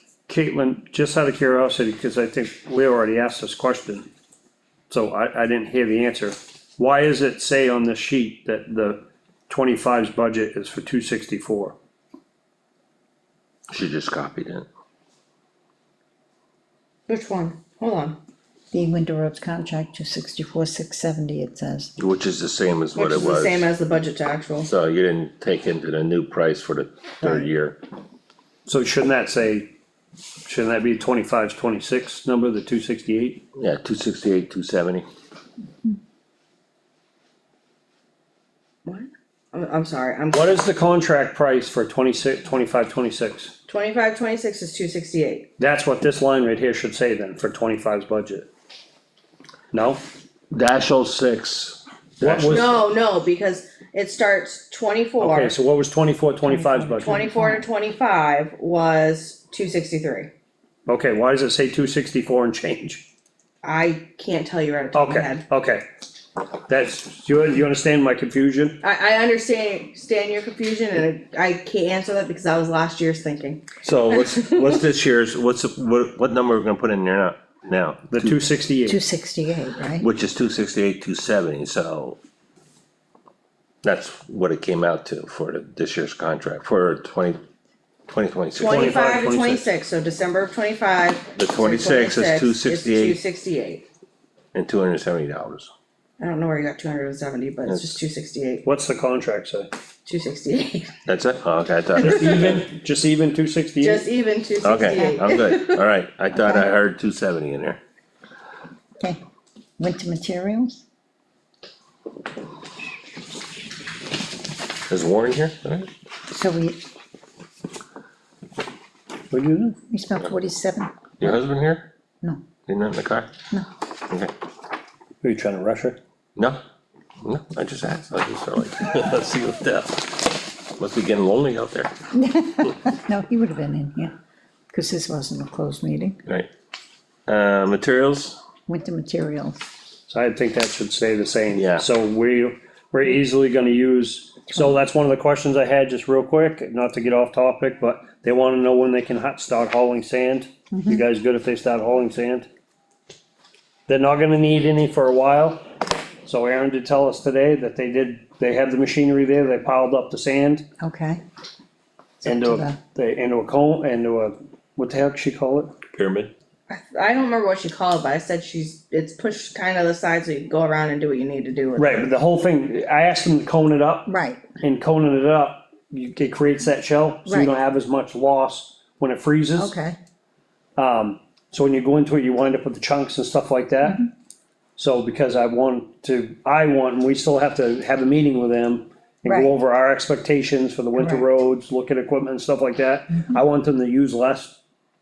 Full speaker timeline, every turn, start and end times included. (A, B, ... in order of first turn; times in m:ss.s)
0:00.3-0:04.1 A
0:04.9-0:11.8 A
0:13.7-0:14.7 B
0:17.1-0:18.2 C
0:18.7-0:21.9 D
0:22.0-0:23.6 B
0:22.9-0:24.7 C
0:24.6-0:27.8 B
0:27.2-0:27.5 C
0:28.6-0:29.7 A
0:30.4-0:33.4 A
0:33.5-0:35.0 B
0:38.8-0:40.6 C
0:40.3-0:43.5 A
0:43.7-0:45.5 C
0:45.6-0:48.5 A
0:49.7-0:50.0 A
0:50.5-0:52.8 B
0:52.2-0:52.8 A
0:52.5-0:55.5 C
0:55.2-0:57.2 A
0:56.5-0:57.6 D
0:56.9-1:00.3 C
1:00.9-1:03.0 A
1:03.6-1:05.4 C
1:04.9-1:05.8 A
1:06.7-1:08.8 A
1:08.8-1:14.5 C
1:13.8-1:18.4 B
1:18.1-1:19.0 A
1:18.9-1:20.0 D
1:20.0-1:22.2 B
1:23.8-1:27.4 B
1:28.1-1:29.0 B
1:28.6-1:33.8 C
1:28.6-1:29.6 A
1:31.4-1:33.2 B
1:34.5-1:35.7 B
1:36.2-1:38.6 C
1:37.6-1:38.0 B
1:38.6-1:39.7 A
1:40.0-1:40.9 C
1:41.0-1:42.7 B
1:42.0-1:44.0 A
1:42.1-1:42.5 C
1:43.8-1:45.8 C
1:44.6-1:47.8 B
1:46.3-1:46.7 D
1:49.8-1:50.8 D
1:54.9-1:55.9 B
1:56.3-1:56.8 D
1:59.3-1:59.8 A
1:59.9-2:01.3 D
2:01.2-2:01.9 B
2:02.6-2:03.3 B
2:05.2-2:06.0 A
2:06.4-2:06.6 B
2:07.2-2:11.9 B
2:12.1-2:14.1 D
2:14.7-2:16.2 D
2:17.3-2:18.4 B
2:18.7-2:19.6 D
2:20.1-2:32.5 A
2:21.5-2:21.8 B
2:30.7-2:31.0 D
2:33.9-2:35.6 A
2:36.2-2:40.6 A
2:40.8-2:41.2 D
2:42.2-2:42.8 D
2:42.2-2:45.8 A
2:45.9-2:46.3 B
2:46.7-2:52.1 C
2:51.8-2:59.7 A
2:54.1-2:54.4 D
2:57.2-2:57.5 D
2:59.6-3:00.0 D
3:00.8-3:04.0 A
3:04.8-3:14.6 A
3:09.2-3:09.6 D
3:11.0-3:11.3 D